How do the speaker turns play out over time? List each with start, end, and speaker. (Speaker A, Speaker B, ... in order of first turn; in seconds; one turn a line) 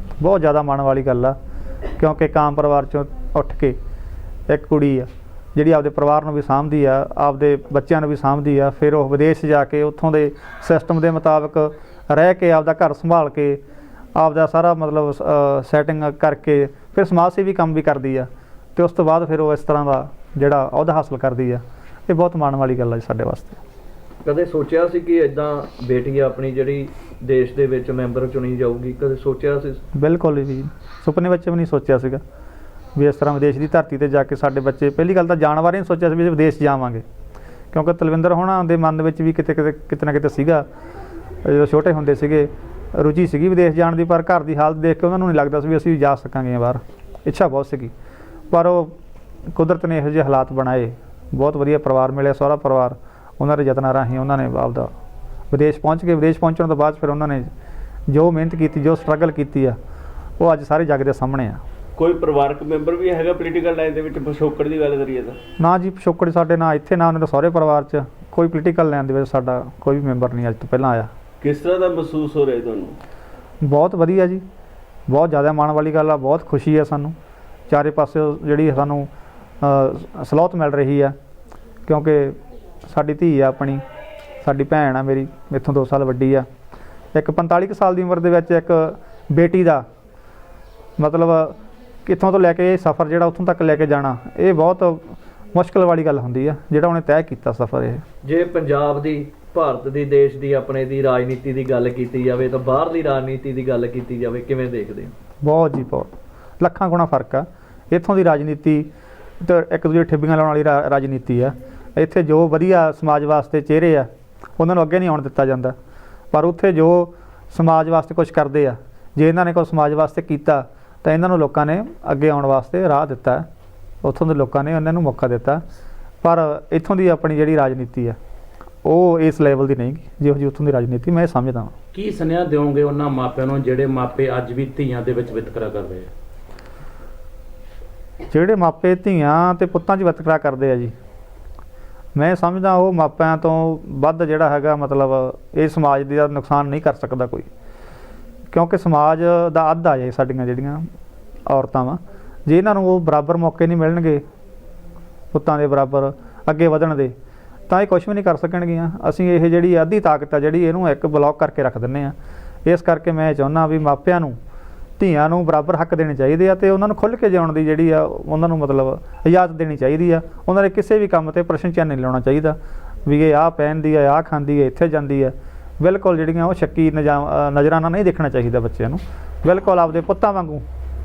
Speaker A: 0.2-1.3
Speaker A: 2.0-3.8
Speaker A: 4.5-13.6
Speaker A: 14.2-23.6
Speaker B: 24.2-29.8
Speaker A: 29.9-32.2
Speaker A: 33.0-37.0
Speaker A: 37.7-40.6
Speaker A: 41.4-47.9
Speaker A: 48.5-48.9
Speaker A: 49.5-54.9
Speaker A: 55.5-57.5
Speaker A: 58.1-59.8
Speaker A: 60.4-61.6
Speaker C: 62.0-65.4
Speaker A: 65.6-71.1
Speaker C: 71.4-72.9
Speaker A: 73.6-74.4
Speaker A: 75.1-77.1
Speaker A: 77.7-79.1
Speaker A: 79.6-81.1
Speaker A: 81.8-83.8
Speaker A: 84.4-86.5
Speaker A: 87.1-89.8
Speaker A: 91.0-98.0
Speaker B: 98.2-105.1
Speaker A: 105.4-108.9
Speaker A: 109.4-115.7
Speaker A: 116.3-123.5
Speaker A: 124.0-125.6
Speaker A: 126.2-128.2
Speaker A: 128.8-131.7
Speaker D: 131.9-136.1
Speaker A: 138.3-140.9
Speaker A: 142.1-147.5
Speaker A: 148.5-150.8
Speaker A: 151.5-154.2
Speaker A: 155.3-157.1
Speaker A: 157.7-162.1
Speaker A: 162.7-164.4
Speaker A: 165.0-180.6